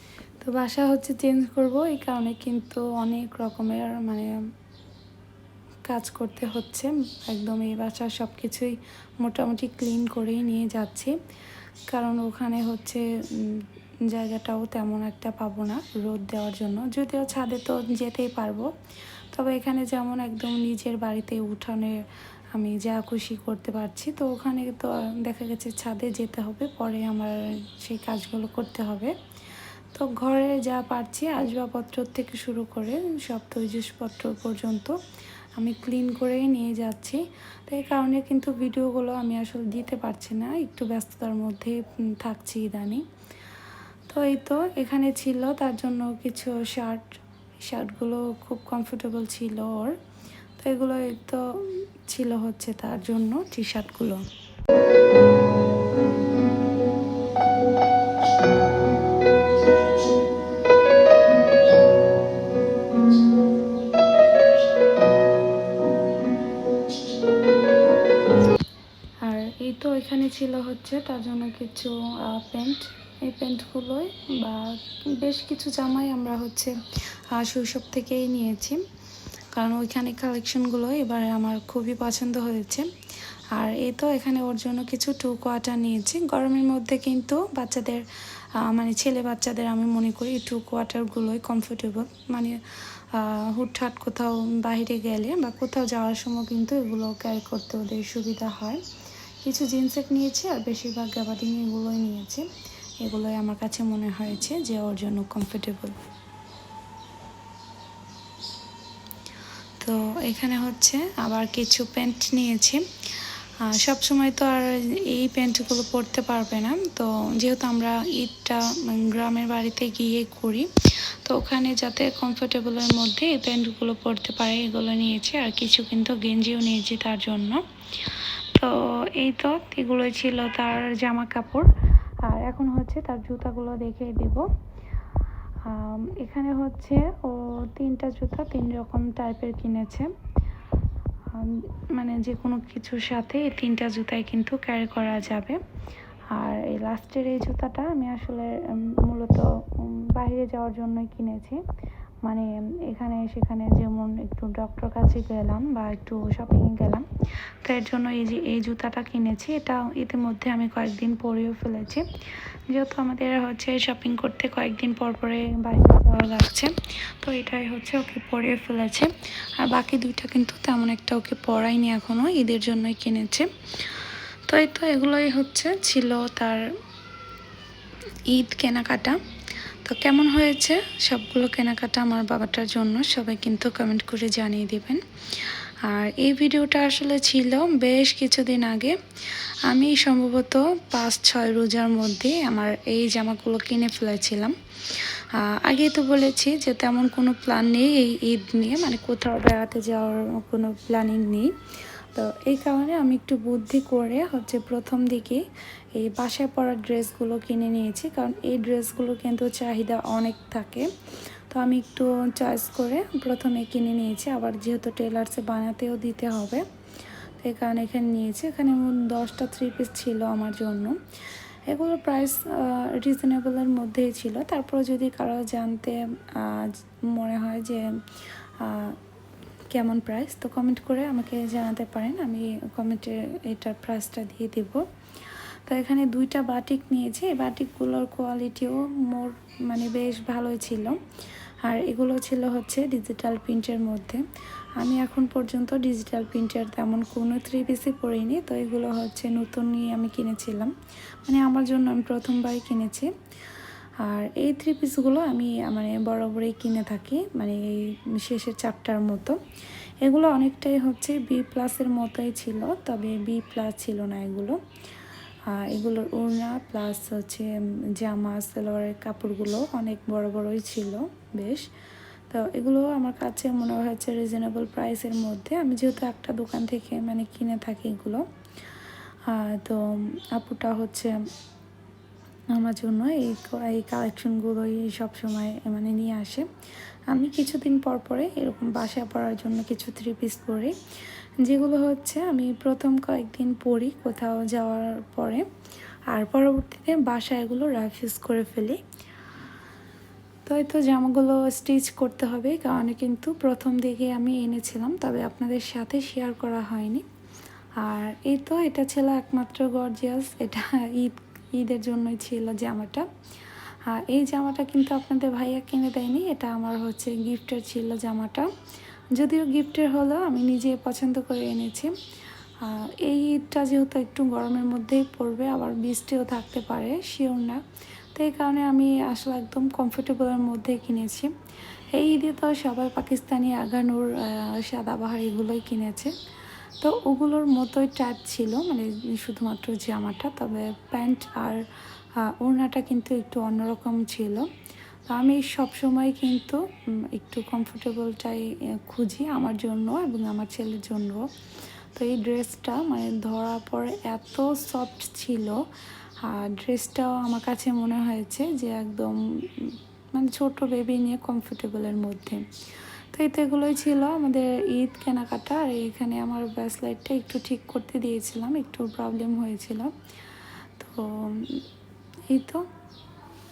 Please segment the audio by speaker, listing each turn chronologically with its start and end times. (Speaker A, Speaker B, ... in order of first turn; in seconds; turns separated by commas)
Speaker A: 0.4-4.3, Speaker A: 5.9-11.1, Speaker A: 11.9-18.7, Speaker A: 19.3-22.0, Speaker A: 22.5-29.1, Speaker A: 29.9-35.0, Speaker A: 35.6-43.0, Speaker A: 44.1-50.0, Speaker A: 50.6-54.2, Speaker A: 69.2-76.8, Speaker A: 77.3-78.8, Speaker A: 79.5-82.9, Speaker A: 83.5-88.0, Speaker A: 88.6-92.6, Speaker A: 93.1-98.8, Speaker A: 99.4-102.5, Speaker A: 103.0-106.0, Speaker A: 109.8-112.8, Speaker A: 113.6-120.7, Speaker A: 121.2-131.7, Speaker A: 132.2-134.5, Speaker A: 135.6-140.1, Speaker A: 141.3-145.6, Speaker A: 146.3-151.6, Speaker A: 152.2-157.1, Speaker A: 157.6-162.0, Speaker A: 162.7-176.7, Speaker A: 178.3-179.2, Speaker A: 179.8-201.5, Speaker A: 202.1-205.4, Speaker A: 205.9-210.9, Speaker A: 211.5-216.6, Speaker A: 217.4-221.0, Speaker A: 221.7-227.9, Speaker A: 228.6-229.0, Speaker A: 229.7-234.8, Speaker A: 235.7-241.0, Speaker A: 241.6-244.2, Speaker A: 244.8-253.1, Speaker A: 254.0-259.4, Speaker A: 260.0-264.6, Speaker A: 265.5-271.6, Speaker A: 272.3-278.2, Speaker A: 279.3-281.1, Speaker A: 282.5-286.5, Speaker A: 287.1-290.7, Speaker A: 291.4-295.4, Speaker A: 296.1-298.8, Speaker A: 300.4-307.0, Speaker A: 307.8-313.1, Speaker A: 313.9-318.5, Speaker A: 319.1-321.9, Speaker A: 322.6-327.6, Speaker A: 328.1-331.3, Speaker A: 331.9-336.1, Speaker A: 336.8-341.6, Speaker A: 342.2-344.5, Speaker A: 345.1-351.3, Speaker A: 351.9-355.6, Speaker A: 356.2-362.4, Speaker A: 363.1-369.9, Speaker A: 370.8-371.6, Speaker A: 372.3-372.6